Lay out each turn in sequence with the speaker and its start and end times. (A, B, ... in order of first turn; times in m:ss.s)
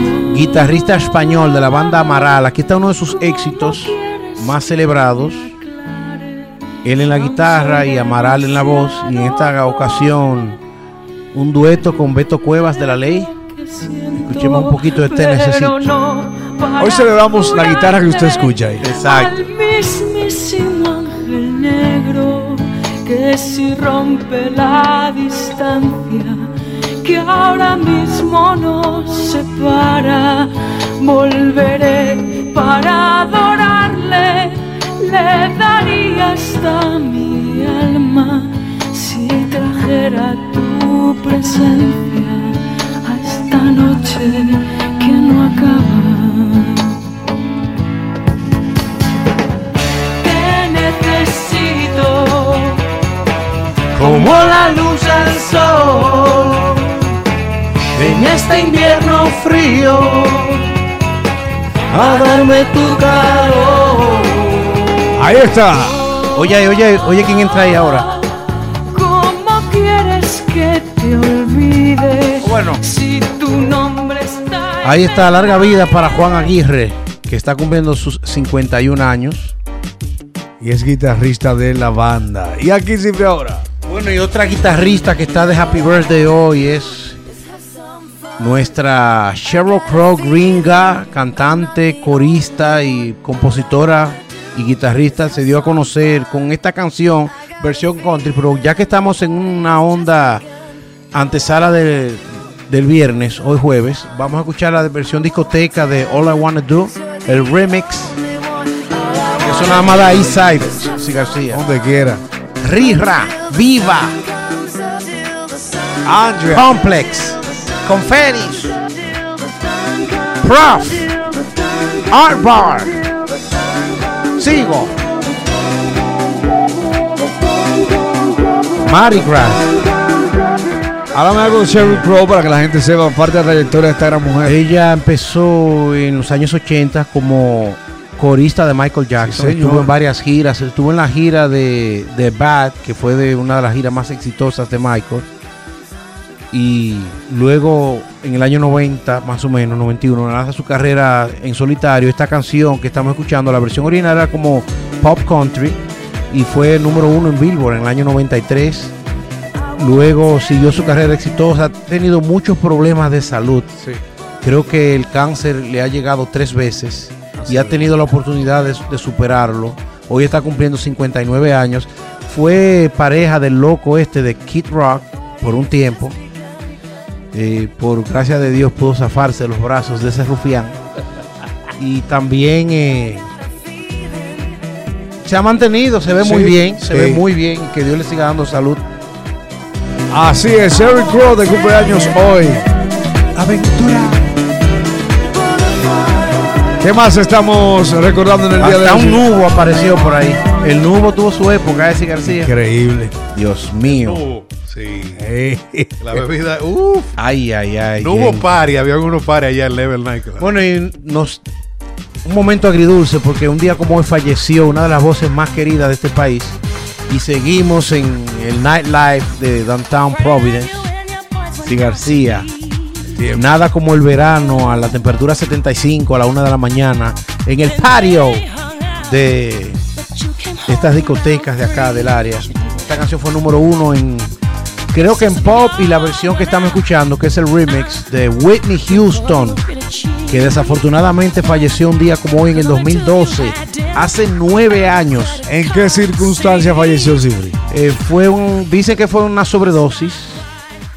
0:00.2-0:05.6 A
0:05.9-0:06.3 B
0:06.8-0:10.6 A
0:11.3-0:13.3 A
0:13.6-0:47.0 B
0:14.2-0:15.9 A
0:16.8-0:18.8 C
0:18.8-0:19.4 A
0:50.2-0:52.9 B
0:53.9-0:57.1 A
0:57.9-1:00.7 A
1:01.9-1:04.9 A
1:05.2-1:06.0 C
1:06.3-1:08.1 A
1:08.9-1:14.8 B
1:12.4-1:12.8 A
1:14.8-1:19.6 A
1:20.6-1:23.6 C
1:23.9-1:27.2 A
1:28.4-1:40.4 A
1:41.1-1:48.2 A
1:49.4-1:51.6 A
1:51.5-1:52.2 C
1:52.6-1:54.2 A
1:56.0-1:56.7 C
1:56.5-1:58.8 A
2:00.4-2:01.1 A
2:02.1-2:03.0 A
2:04.4-2:05.0 A
2:08.8-2:09.8 A
2:11.1-2:14.6 C
2:11.8-2:12.0 A
2:14.4-2:25.3 A
2:19.2-2:19.9 C
2:26.5-2:35.8 A
2:36.3-2:38.9 A
2:39.8-2:43.7 A
2:44.4-2:56.2 A
2:47.3-2:47.9 C
2:57.3-3:00.8 A
3:01.8-3:03.3 A
3:05.2-3:08.8 A
3:06.2-3:07.2 C
3:10.1-3:12.6 C
3:13.4-3:14.2 C
3:16.8-3:19.2 C
3:18.6-3:22.5 A
3:22.2-3:23.2 C
3:23.3-3:24.2 A
3:23.8-3:25.3 D
3:25.2-3:26.1 C
3:26.0-3:27.2 D
3:27.2-3:28.5 A
3:28.0-3:30.5 D
3:30.4-3:31.4 A
3:32.2-3:40.9 A
3:41.6-3:42.5 A
3:43.1-3:43.4 C
3:43.3-3:49.8 A
3:50.6-3:54.3 A
3:54.9-3:59.6 A
4:00.2-4:05.4 A
4:05.5-4:07.6 C
4:07.7-4:10.5 A